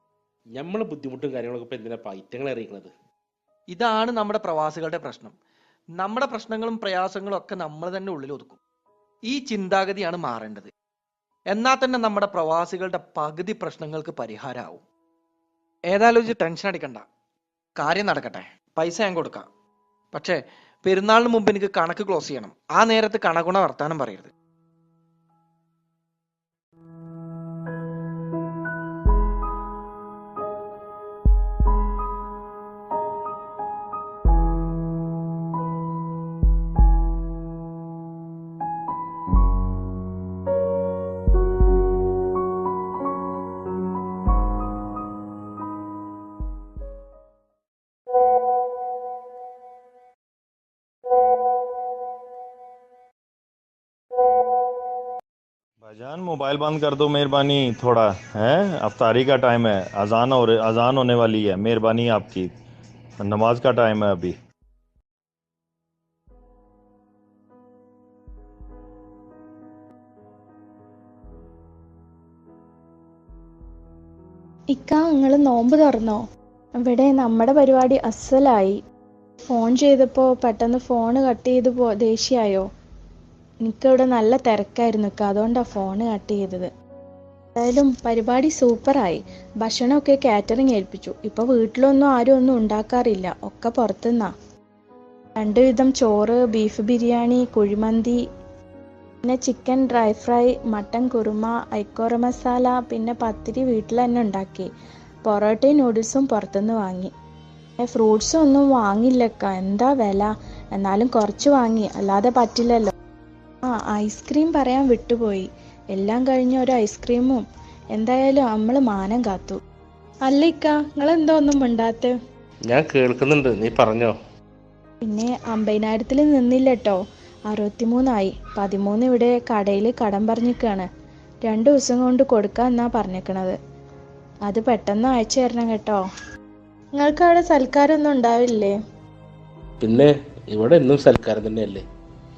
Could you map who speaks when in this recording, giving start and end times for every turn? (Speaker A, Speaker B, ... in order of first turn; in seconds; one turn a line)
Speaker A: 0.6-2.9
Speaker B: 3.7-5.4
Speaker B: 6.0-8.6
Speaker B: 9.3-10.7
Speaker B: 11.5-14.8
Speaker B: 15.9-17.1
Speaker B: 17.8-19.5
Speaker B: 20.1-24.3
Speaker C: 55.8-62.5
Speaker C: 63.2-64.3
Speaker D: 74.7-76.2
Speaker D: 76.8-78.8
Speaker D: 79.5-82.7
Speaker D: 83.6-86.7
Speaker D: 87.5-94.3
Speaker D: 95.4-98.2
Speaker D: 99.2-104.7
Speaker D: 105.2-107.1
Speaker D: 107.8-112.9
Speaker D: 113.7-117.4
Speaker D: 118.0-119.6
Speaker D: 120.3-122.2
Speaker A: 122.7-124.2
Speaker D: 125.0-130.9
Speaker D: 131.4-133.6
Speaker D: 134.4-136.0
Speaker D: 137.0-138.8
Speaker A: 139.8-141.8